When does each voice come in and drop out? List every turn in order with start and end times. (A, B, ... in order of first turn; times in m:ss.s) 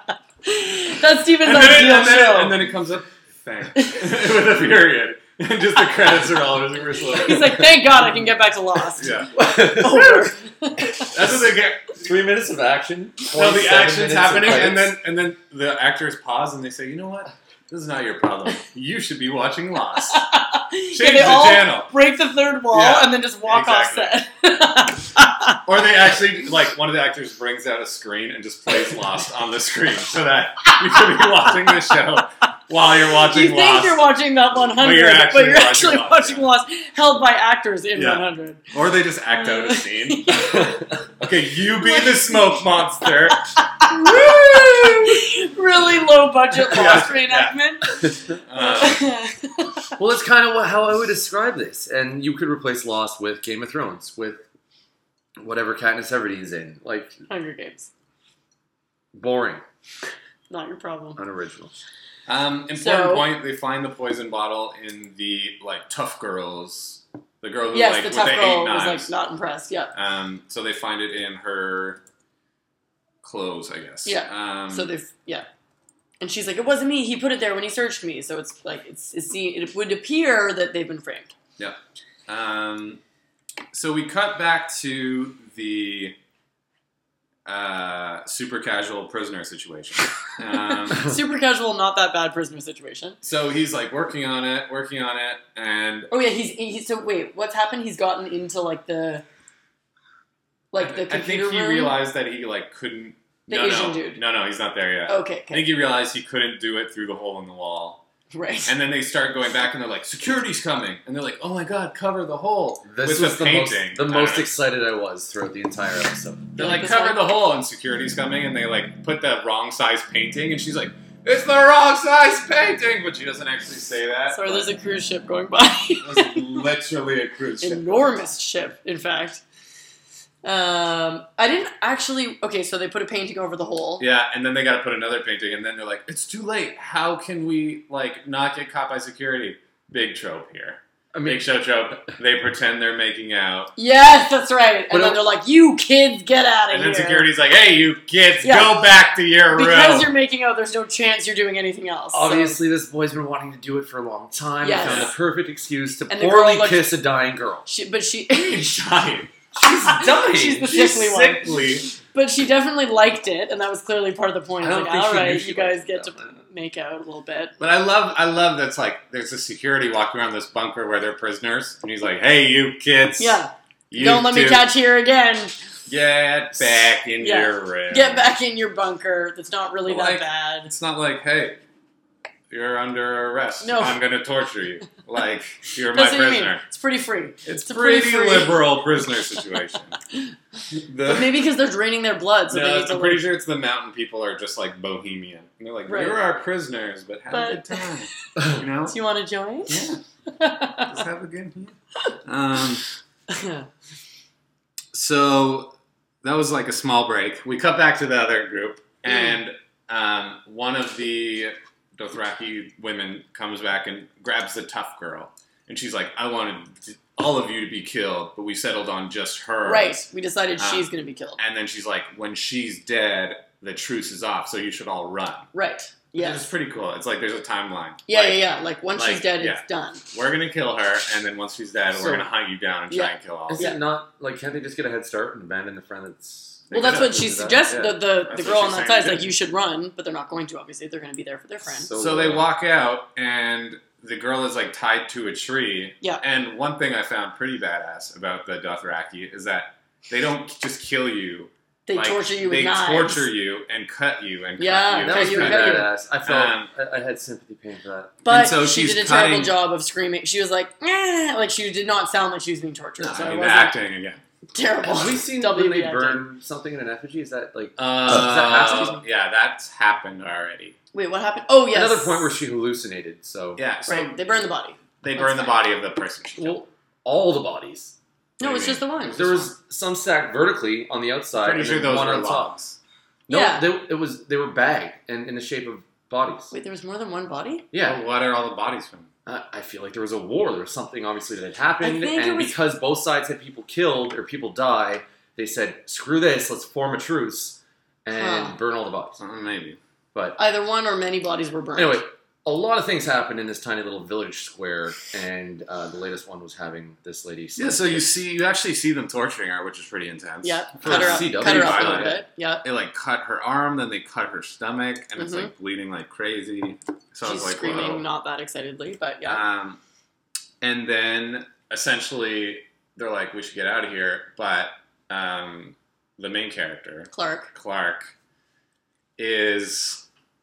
0:00.4-0:02.6 A
0:01.4-0:07.7 B
0:07.1-0:11.1 A
0:09.0-0:09.3 B
0:09.3-0:10.2 C
0:11.0-0:12.1 B
0:12.0-0:15.0 C
0:13.3-0:20.2 B
0:20.1-0:25.6 A
0:20.9-0:21.9 B
0:22.7-0:24.2 B
0:25.6-0:34.0 B
0:33.2-0:38.7 A
0:34.7-0:36.4 B
0:38.0-0:40.6 B
0:39.3-0:40.9 A
0:41.2-0:45.2 B
0:41.8-0:49.8 A
0:46.6-0:47.6 B
0:48.3-0:49.1 B
0:50.0-0:54.4 C
0:55.4-0:57.2 C
0:57.3-0:57.9 A
0:59.1-0:59.6 C
1:00.5-1:01.2 A
1:01.2-1:01.7 C
1:02.3-1:09.1 B
1:02.8-1:03.2 A
1:07.7-1:09.9 A
1:09.9-1:12.0 B
1:13.2-1:14.9 B
1:14.0-1:15.4 A
1:16.2-1:21.3 A
1:21.6-1:23.0 B
1:23.7-1:26.2 B
1:27.4-1:31.1 B
1:30.8-1:33.2 A
1:33.2-1:36.1 B
1:36.1-1:39.2 A
1:40.7-1:42.0 A
1:40.8-1:48.0 B
1:43.5-1:44.2 A
1:45.1-1:45.6 A
1:48.3-1:48.7 A
1:48.6-1:54.6 B
1:52.8-1:56.6 C
1:56.6-1:57.2 A
1:56.6-2:04.7 B
2:04.3-2:06.6 A
2:06.0-2:08.2 B
2:07.6-2:09.4 A
2:10.4-2:14.0 A
2:14.0-2:23.7 B
2:21.1-2:21.4 C
2:23.8-2:27.3 A
2:24.9-2:25.2 C
2:26.7-2:30.1 B
2:28.4-2:28.9 A
2:29.5-2:32.6 A
2:32.1-2:37.6 C
2:34.6-2:35.1 A
2:34.8-2:35.1 B
2:36.1-2:36.9 A
2:37.6-2:38.7 A
2:38.3-2:39.3 B
2:39.5-2:40.7 C
2:39.6-2:47.5 A
2:40.6-2:41.9 B
2:44.6-2:46.4 C
2:47.6-2:54.7 B
2:53.2-2:55.5 A
2:55.9-2:58.3 B
2:57.2-3:00.7 A
2:59.9-3:01.6 B
3:02.5-3:06.6 B
3:03.6-3:04.0 A
3:05.9-3:08.6 A
3:07.4-3:10.0 B
3:10.7-3:11.4 B
3:11.0-3:13.2 A
3:12.5-3:19.0 B
3:15.9-3:16.2 A
3:17.3-3:17.9 A
3:18.9-3:21.0 A
3:19.7-3:20.0 B
3:20.8-3:22.8 B
3:23.3-3:23.7 A
3:24.9-3:40.0 B
3:29.0-3:29.4 A
3:39.6-3:41.4 A
3:40.6-3:45.5 B
3:45.5-3:46.5 A
3:46.1-3:53.7 B
3:48.1-3:50.0 A
3:52.0-3:52.2 C
3:52.9-3:53.8 A
3:53.5-3:57.9 C
3:56.7-3:59.3 B
3:56.7-4:01.9 A
4:01.6-4:02.4 C
4:02.0-4:16.7 B
4:11.9-4:13.2 A
4:14.6-4:15.9 A
4:15.0-4:18.2 C
4:18.2-4:23.7 A
4:18.3-4:19.5 B
4:23.0-4:24.2 B
4:24.5-4:26.2 A
4:24.8-4:29.0 C
4:27.8-4:30.8 B
4:28.5-4:29.0 A
4:30.9-4:32.3 A
4:31.7-4:33.6 C
4:33.6-4:34.2 B
4:33.8-4:35.6 A
4:35.0-4:36.6 B
4:36.4-4:38.0 C
4:38.4-4:39.2 A
4:38.4-4:39.5 B
4:39.1-4:42.5 C
4:41.4-4:42.8 B
4:43.3-4:46.5 C
4:43.3-4:43.7 A
4:46.5-4:47.7 A
4:47.7-4:48.0 C
4:47.8-4:49.1 B
4:49.2-4:59.2 C
4:51.8-4:52.6 A
4:58.1-4:58.5 A
4:59.2-4:59.8 B
5:00.1-5:00.4 C
5:00.4-5:02.0 A
5:01.8-5:08.0 C
5:07.6-5:18.0 B
5:10.4-5:12.6 A
5:10.8-5:12.2 C
5:15.2-5:15.5 A
5:17.2-5:19.4 A
5:19.2-5:19.8 B
5:20.6-5:28.1 B
5:27.1-5:27.5 A
5:29.2-5:30.0 B